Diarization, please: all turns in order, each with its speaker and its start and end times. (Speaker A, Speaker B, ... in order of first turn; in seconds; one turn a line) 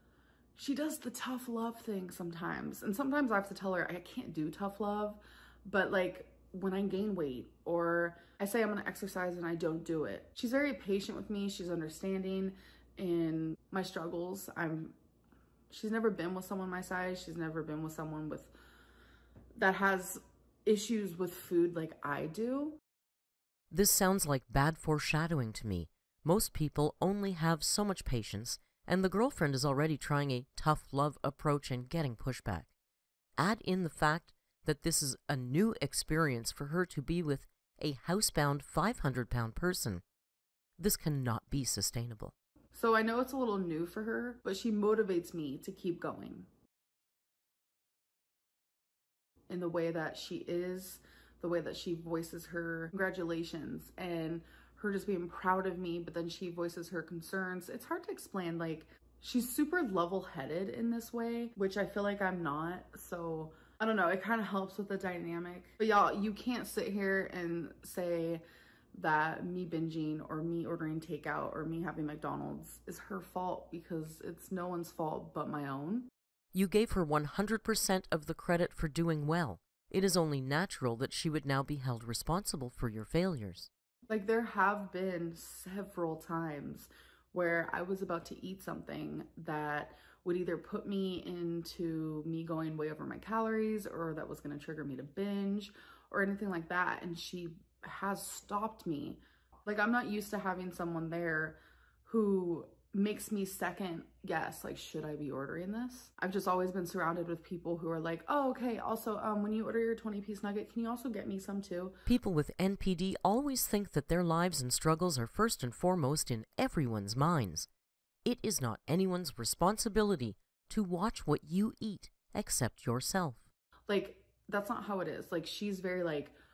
Speaker A: 0.6-15.0
Speaker A: 15.7-18.5
Speaker A: 19.6-22.8
Speaker B: 23.7-32.7
Speaker B: 33.4-40.0
Speaker B: 40.8-42.3
Speaker A: 42.7-46.5
Speaker A: 49.5-68.4
Speaker A: 68.9-76.1
Speaker B: 76.5-83.7
Speaker A: 84.1-112.0
Speaker B: 112.1-117.7
Speaker B: 118.2-123.5
Speaker A: 123.9-126.3